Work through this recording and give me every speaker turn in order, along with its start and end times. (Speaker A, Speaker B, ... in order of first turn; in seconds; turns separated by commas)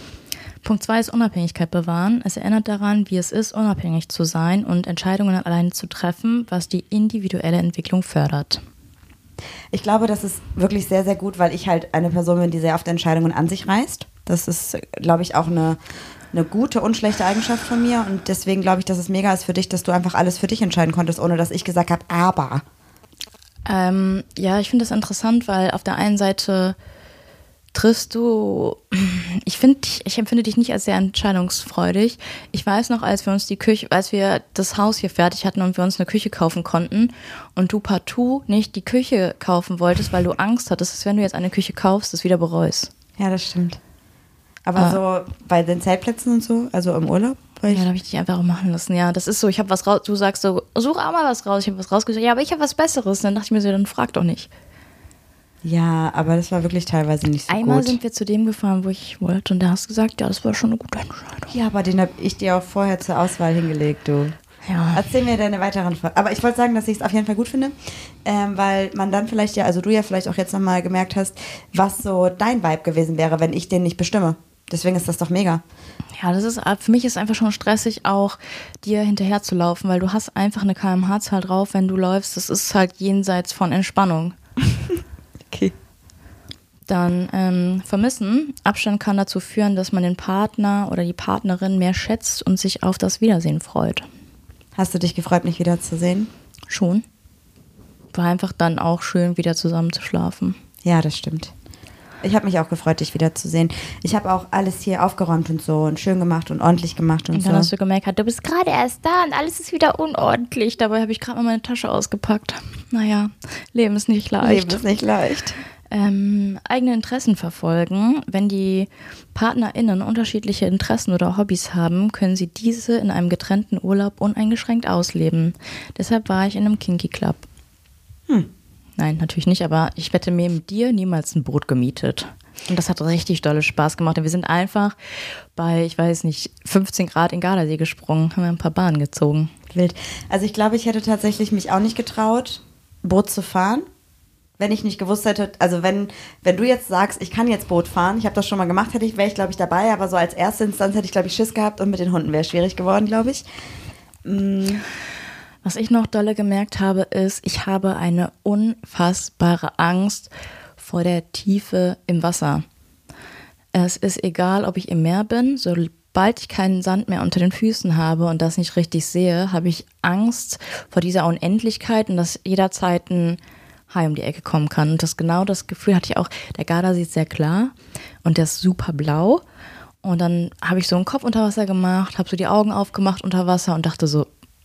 Speaker A: 0.6-8.6, Speaker B: 9.7-15.8, Speaker B: 16.3-22.6, Speaker A: 23.6-26.8, Speaker A: 27.7-42.9, Speaker B: 43.2-43.8, Speaker B: 44.6-47.9, Speaker A: 47.7-54.5, Speaker B: 55.6-58.0, Speaker A: 57.5-61.5, Speaker B: 61.5-64.3, Speaker A: 64.6-65.0, Speaker B: 64.9-75.6, Speaker A: 76.2-84.3, Speaker A: 86.9-94.1, Speaker B: 94.8-96.3, Speaker A: 96.7-97.0, Speaker A: 98.1-100.6, Speaker B: 100.8-101.5, Speaker B: 102.2-107.7, Speaker A: 107.3-114.8, Speaker B: 114.4-115.6, Speaker A: 115.9-127.4, Speaker A: 129.0-134.9, Speaker A: 135.5-139.5, Speaker B: 139.7-143.8, Speaker B: 144.6-153.4, Speaker B: 154.2-154.8, Speaker A: 155.6-162.6, Speaker A: 163.7-173.4, Speaker A: 173.9-179.4, Speaker A: 180.0-184.3